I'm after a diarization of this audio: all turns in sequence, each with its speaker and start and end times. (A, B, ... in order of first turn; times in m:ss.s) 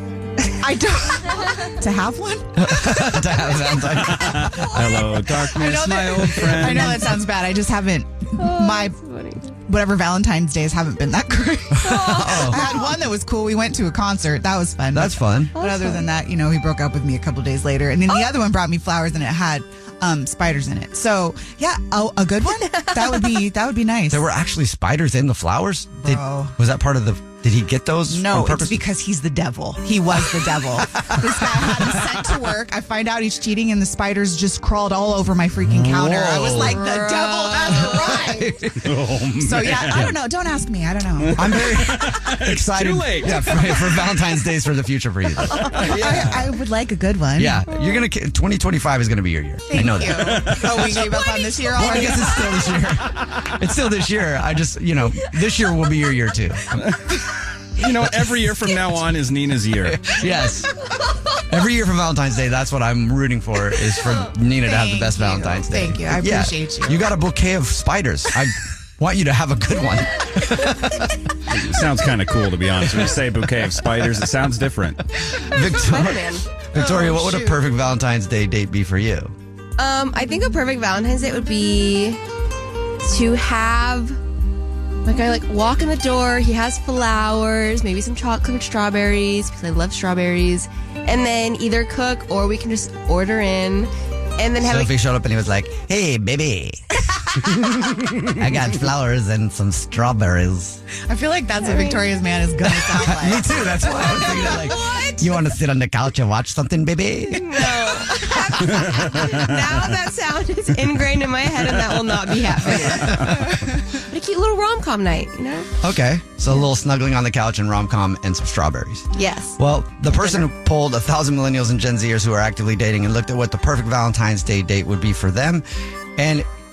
0:00.4-0:03.8 A
0:02.6-0:05.0 B
0:03.9-0:07.2 C
0:04.8-0:09.0 A
0:08.4-0:09.5 D
0:09.6-0:24.2 A
0:11.8-0:12.7 B
0:11.9-0:13.0 D
0:14.9-0:15.6 B
0:15.5-0:16.1 D
0:18.1-0:18.3 D
0:22.8-0:23.2 D
0:24.1-0:28.8 B
0:26.0-0:26.6 A
0:28.1-0:38.7 A
0:31.0-0:31.7 B
0:35.6-0:36.8 B
0:36.0-0:36.8 C
0:36.7-0:38.4 D
0:38.2-0:38.7 B
0:38.8-0:40.2 C
0:39.4-0:41.5 A
0:39.9-0:40.2 B
0:41.2-0:44.1 C
0:41.3-0:46.4 B
0:45.5-0:46.2 C
0:45.6-0:47.7 A
0:47.4-0:51.2 B
0:49.7-0:52.6 A
0:50.1-0:51.5 C
0:51.7-0:56.9 B
0:56.8-0:57.0 C
0:57.8-1:00.0 C
0:59.8-1:00.7 B
1:01.4-1:11.1 B
1:04.6-1:07.1 A
1:11.5-1:15.0 C
1:15.4-1:19.3 B
1:15.6-1:16.5 D
1:16.7-1:17.6 A
1:19.8-1:22.2 D
1:23.0-1:24.2 D
1:25.0-1:34.9 D
1:34.6-1:36.8 B
1:38.2-1:40.8 B
1:41.1-1:45.0 A
1:41.6-1:42.1 D
1:42.9-1:47.6 B
1:44.0-1:45.3 D
1:47.2-1:53.5 D
1:47.7-1:48.4 A
1:53.0-1:53.4 C
1:54.1-1:55.7 D
1:55.8-2:05.6 B
1:59.1-2:00.5 D
2:06.2-2:06.4 B